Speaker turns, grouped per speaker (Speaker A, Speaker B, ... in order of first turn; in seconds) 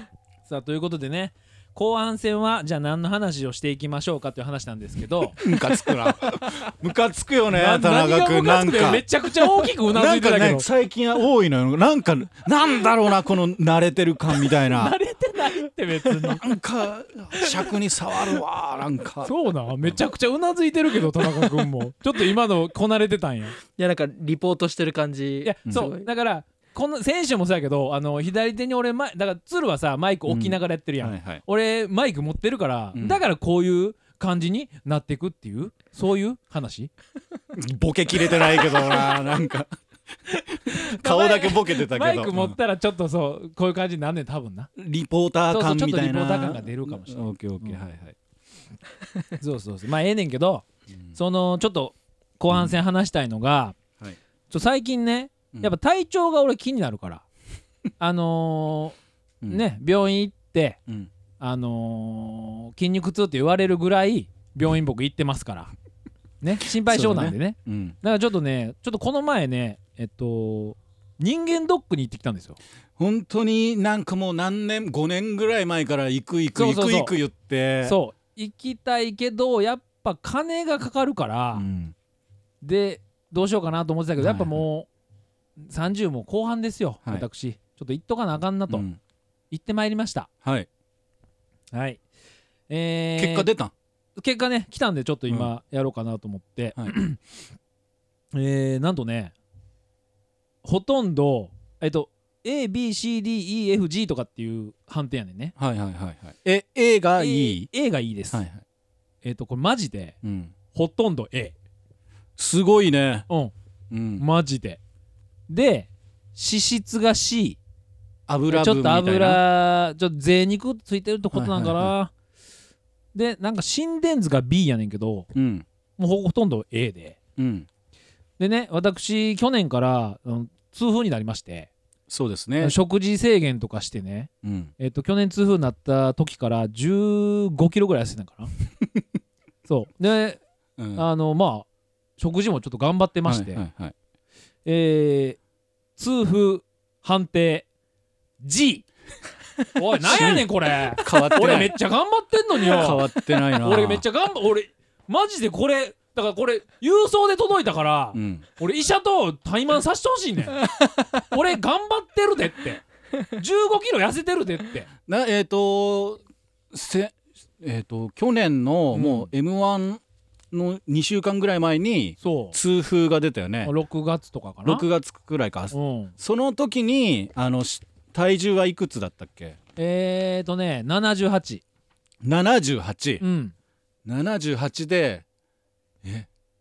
Speaker A: 0.4-5.5, 7.5-10.7, 14.5-16.4, 19.2-23.6, 25.4-36.9, 40.4-44.7, 45.5-47.8, 49.4-53.8, 54.5-57.2, 58.0-59.0, 59.5-60.8, 61.4-65.7, 66.4-72.6, 76.5-77.1, 77.8-81.7, 82.6-84.9, 85.6-88.8, 89.5-90.3, 91.7-92.0, 92.7-93.5, 94.2-97.2, 98.3-99.3, 100.6-105.5, 107.2-108.4, 109.2-110.2, 110.7-111.5, 114.2-114.8, 115.5-117.6, 118.5-122.1, 123.1-125.3, 126.0-127.2, 128.4-131.7, 132.6-138.5, 139.6-140.4, 140.9-141.7, 142.2-143.6, 144.6-145.4, 145.9-147.7, 148.4-148.9, 149.7-164.9, 168.9-169.3, 172.2-172.6, 173.6-174.8, 175.7-176.1, 179.8-181.6, 183.2-183.5
Speaker B: 5.4-14.9, 16.3-19.3, 30.3-31.4, 32.9-33.2, 37.5-39.7, 40.6-42.6, 44.8-48.1, 52.5-52.8, 66.8-68.0, 73.0-78.0, 81.5-81.9, 84.2-84.6, 88.7-89.0, 93.2-93.7, 105.6-107.7, 108.3-108.6, 110.2-110.5, 112.4-113.3, 113.9-114.2, 118.3-119.4, 121.3-121.9, 125.3-125.7, 127.4-127.7, 132.1-132.8, 134.4-134.7, 140.8-141.1, 143.2-143.9, 150.0-151.7, 152.6-154.0, 158.1-158.4, 165.1-173.7, 174.6-179.6, 182.2-183.2, 184.0-185.2, 186.0-186.3
Speaker C: 23.8-26.1